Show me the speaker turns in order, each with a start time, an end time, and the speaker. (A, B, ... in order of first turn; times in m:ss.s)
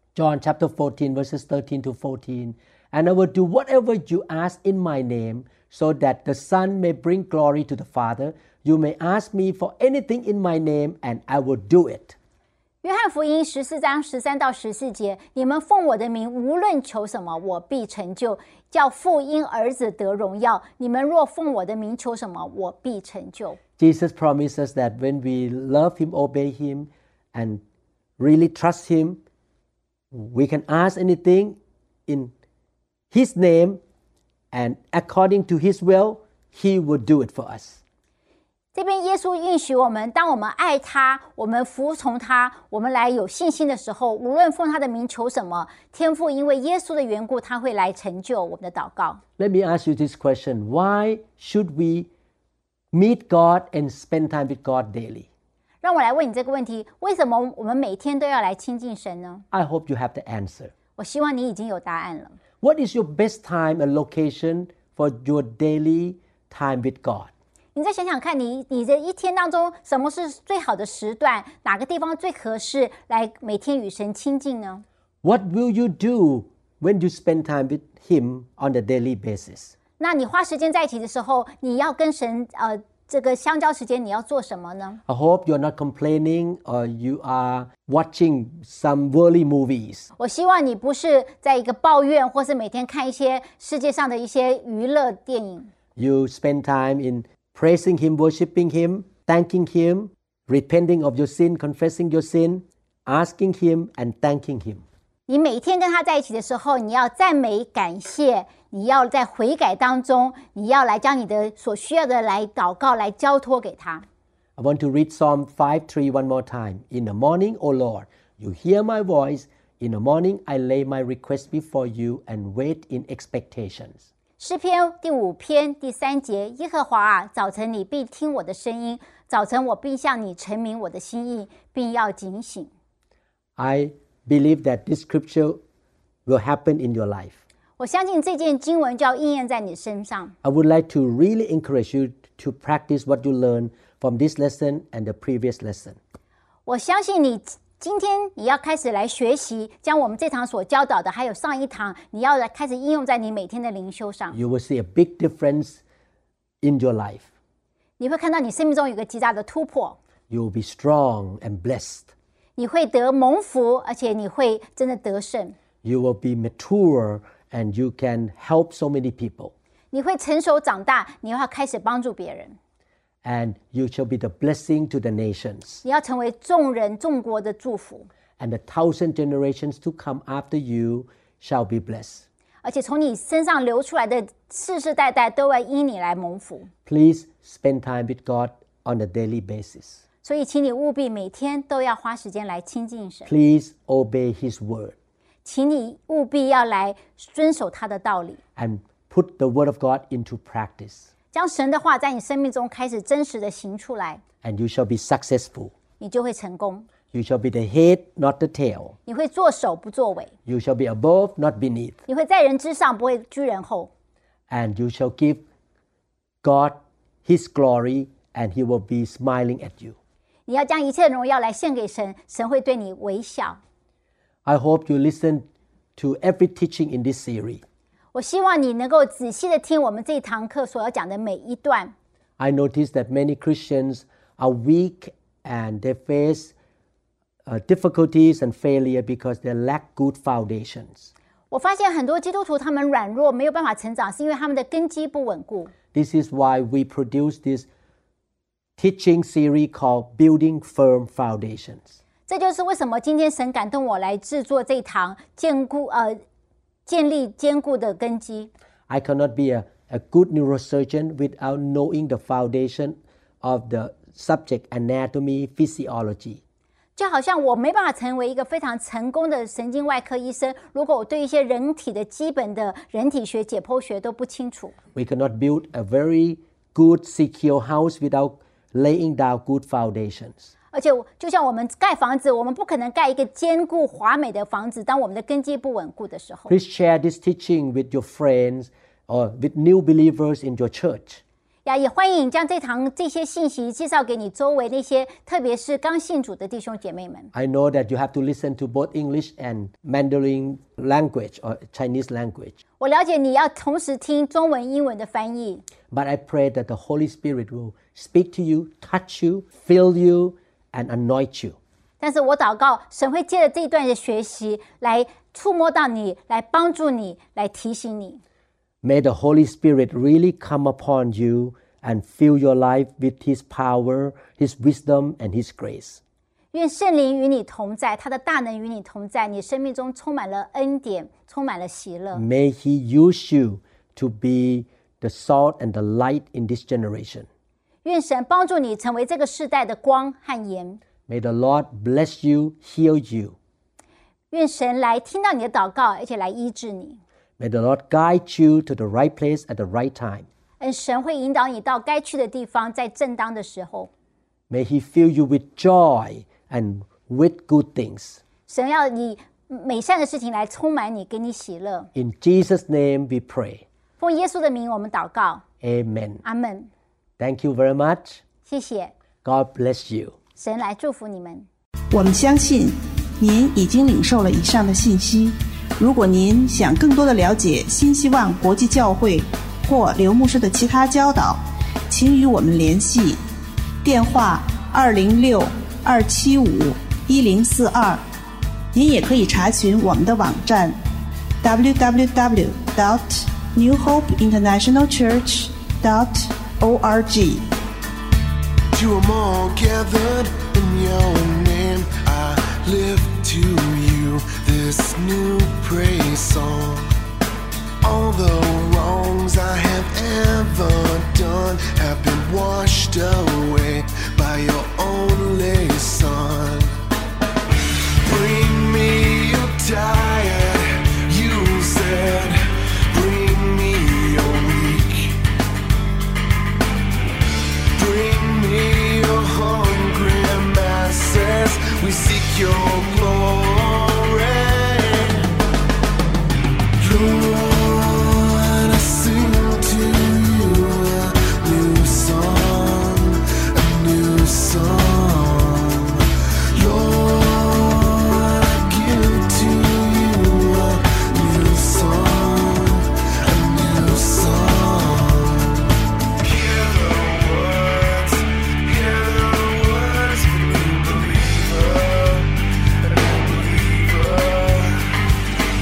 0:00.2-0:12.2 A
0:12.8-0:23.6 B
0:23.8-0:27.6 A
0:28.2-0:29.2 A
0:30.1-0:32.3 A
0:33.1-0:33.8 A
0:34.5-0:37.8 A
0:38.7-0:49.2 B
0:49.4-0:52.1 A
0:52.9-0:55.3 A
0:55.8-0:59.4 B
0:59.5-1:00.7 A
1:01.0-1:02.4 B
1:02.6-1:07.3 A
1:07.8-1:14.8 B
1:15.2-1:19.8 A
1:20.0-1:25.0 B
1:25.1-1:30.1 A
1:30.2-1:35.7 B
1:36.0-1:44.8 A
1:45.3-1:54.0 B
1:54.6-2:04.0 A
2:04.4-2:12.7 B
2:13.6-2:15.6 A
2:16.3-2:17.4 A
2:17.8-2:20.4 B
2:20.4-2:26.0 A
2:26.7-2:34.4 B
2:34.3-2:35.8 A
2:36.6-2:37.3 A
2:38.0-2:40.0 B
2:40.3-2:42.1 A
2:42.6-2:45.6 B
2:45.8-2:49.5 A
2:49.9-2:52.6 B
2:53.2-2:55.8 A
2:55.8-2:58.1 B
2:58.4-3:02.2 A
3:02.6-3:06.7 B
3:06.9-3:10.0 A
3:10.2-3:13.3 B
3:13.3-3:14.9 A
3:15.4-3:18.4 B
3:18.6-3:21.1 A
3:21.3-3:24.2 B
3:24.4-3:25.7 A
3:26.0-3:26.9 B
3:27.1-3:29.0 A
3:29.1-3:30.3 B
3:30.5-3:32.0 A
3:32.1-3:33.9 B
3:34.5-3:35.4 A
3:36.4-3:40.0 A
3:40.5-3:43.6 B
3:44.4-3:47.6 A
3:48.1-3:51.9 B
3:52.4-3:56.5 A
3:57.5-4:01.1 A
4:01.5-4:05.7 B
4:05.9-4:07.7 A
4:08.8-4:11.9 A
4:12.3-4:16.2 B
4:16.9-4:18.5 B
4:18.9-4:26.4 A
4:27.0-4:34.8 B
4:35.0-4:40.5 A
4:40.7-4:46.5 B
4:46.5-4:51.2 A
4:51.7-4:57.3 B
4:57.3-5:02.6 A
5:02.8-5:05.6 B
5:05.9-5:11.6 A
5:12.0-5:18.2 B
5:18.8-5:26.0 A
5:26.5-5:32.2 B
5:32.1-5:37.3 A
5:37.8-5:40.8 B
5:41.1-5:43.4 A
5:44.3-5:47.0 B
5:47.4-5:50.3 A
5:50.6-5:53.9 B
5:54.5-5:58.2 A
5:58.5-6:01.9 B
6:01.9-6:03.6 A
6:04.0-6:05.4 B
6:05.6-6:06.2 A
6:06.2-6:06.7 B
6:07.2-6:08.2 A
6:08.5-6:08.9 B
6:09.2-6:10.2 A
6:10.4-6:11.5 B
6:11.9-6:23.2 C
6:23.8-6:28.0 C
6:28.7-6:30.8 C
6:31.4-6:37.4 C
6:38.7-6:46.9 D
6:47.8-6:56.8 D
6:58.0-7:05.2 D
7:07.8-7:15.3 D
7:16.8-7:45.0 D